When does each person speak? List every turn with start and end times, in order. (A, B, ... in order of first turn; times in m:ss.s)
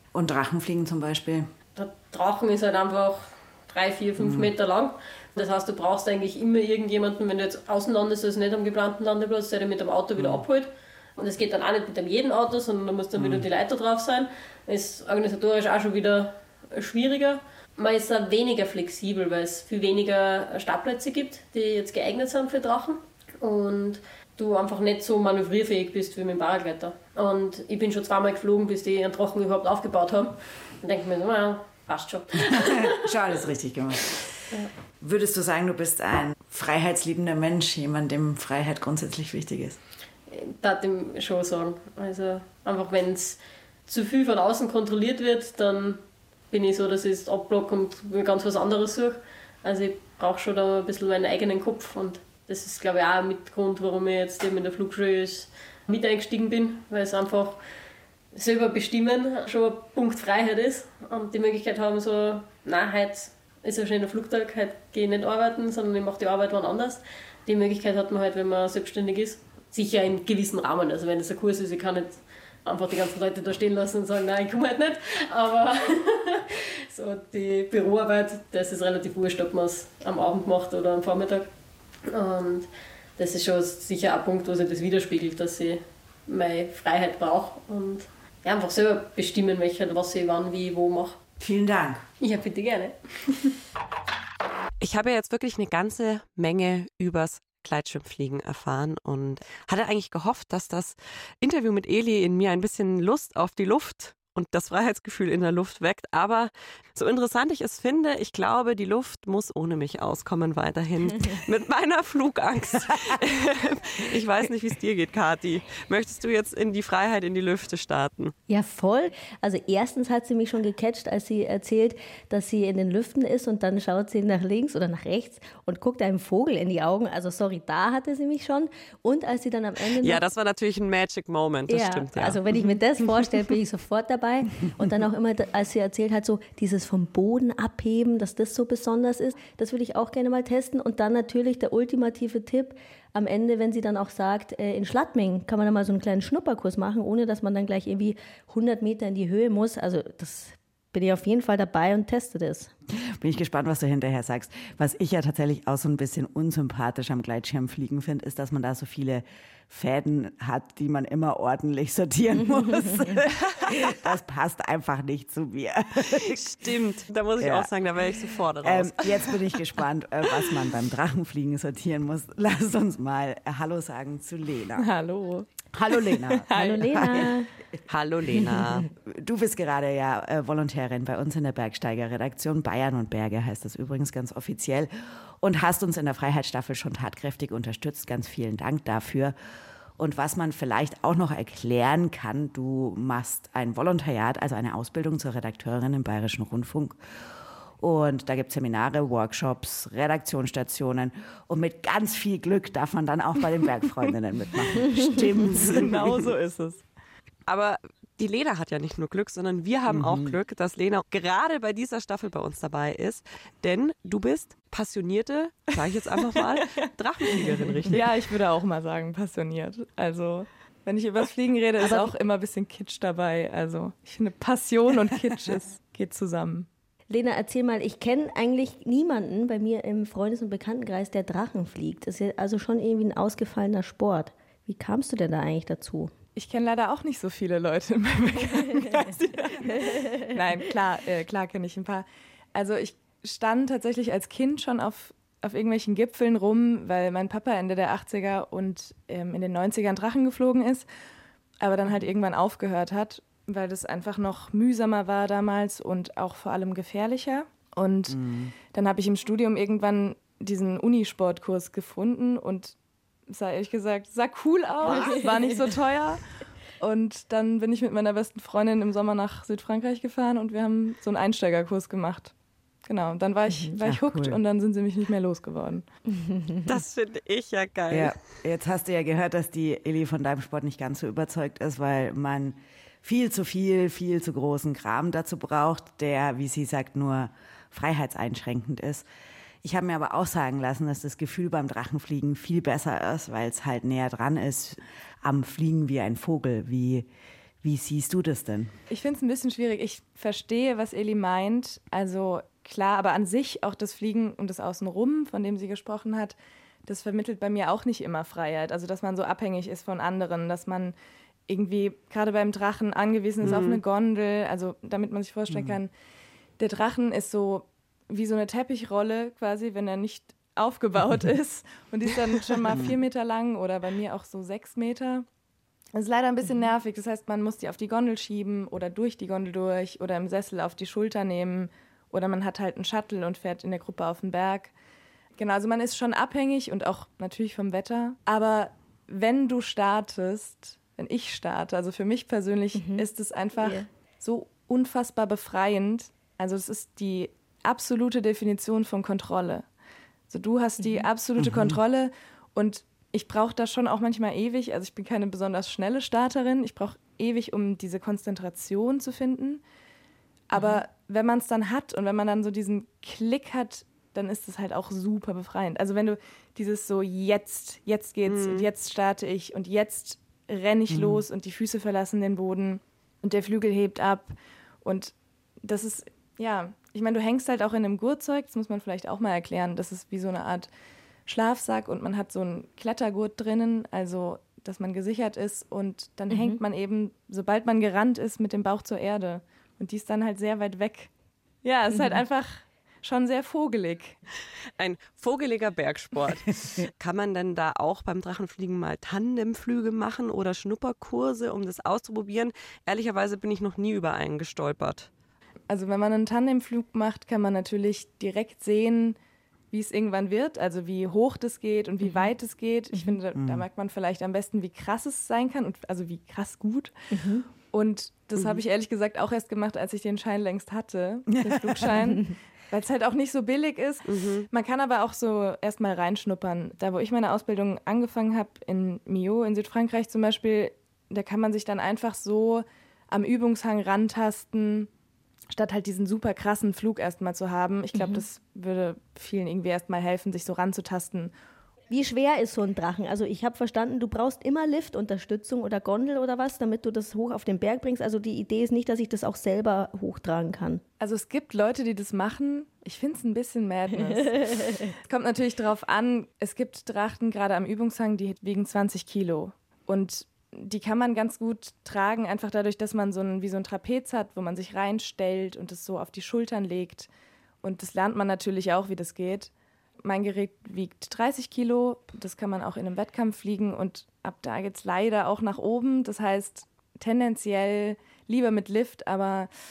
0:00.1-0:01.5 A
0:01.8-0:33.4 B
0:04.2-0:04.5 A
0:13.2-0:13.4 A
0:32.4-0:34.3 A
0:35.0-0:39.8 A
0:40.3-0:57.6 B
0:58.3-1:21.5 B
1:22.1-1:31.2 B
1:31.4-1:32.1 A
1:32.2-1:33.5 B
1:34.8-1:58.3 C
1:58.5-2:10.2 D
2:10.0-2:13.3 C
2:11.7-2:32.7 D
2:32.9-2:46.7 A
2:46.2-2:49.6 C
2:47.4-2:47.7 A
2:48.6-2:54.9 A
2:54.8-2:57.3 E
2:55.7-2:57.4 A
2:56.5-2:57.5 D
2:57.9-2:58.9 C
2:58.5-2:58.8 D
2:59.0-3:09.3 A
3:10.0-3:17.0 A
3:17.8-3:26.3 A
3:25.5-3:26.8 E
3:27.5-3:38.0 C
3:29.9-3:30.4 A
3:36.1-3:36.9 E
3:37.9-3:46.7 E
3:41.8-3:42.1 D
3:47.1-3:56.1 D
3:56.4-4:10.9 E
4:11.6-4:22.8 E
4:18.1-4:18.5 A
4:23.3-4:26.2 E
4:26.8-4:32.3 E
4:32.8-4:35.8 E
4:33.8-4:34.4 A
4:36.2-4:36.6 D
4:36.6-4:38.2 C
4:37.9-4:49.0 A
4:49.6-4:57.1 A
4:57.6-4:58.7 A
4:58.9-5:10.9 E
5:11.5-5:15.9 E
5:13.4-5:13.8 C
5:15.5-5:15.8 A
5:16.6-5:25.2 E
5:25.9-5:34.7 E
5:35.4-5:49.6 E
5:42.8-5:43.0 D
5:43.6-5:43.8 D
5:50.3-5:59.6 E
5:51.4-5:51.8 A
6:00.5-6:20.7 E
6:08.3-6:08.7 C
6:10.9-6:11.2 A
6:21.2-6:31.1 E
6:26.3-6:26.6 D
6:31.6-6:34.2 E
6:34.8-6:45.1 C
6:45.7-6:49.2 E
6:49.7-6:56.9 E
6:53.4-6:53.6 A
6:57.1-6:57.4 D
6:57.7-7:14.9 E
7:01.3-7:01.9 A
7:04.1-7:04.5 C
7:15.5-7:21.3 E
7:18.0-7:18.2 D
7:21.9-7:30.8 D
7:31.0-7:47.1 E
7:34.6-7:34.8 D
7:47.6-7:49.5 E
7:50.0-7:59.5 E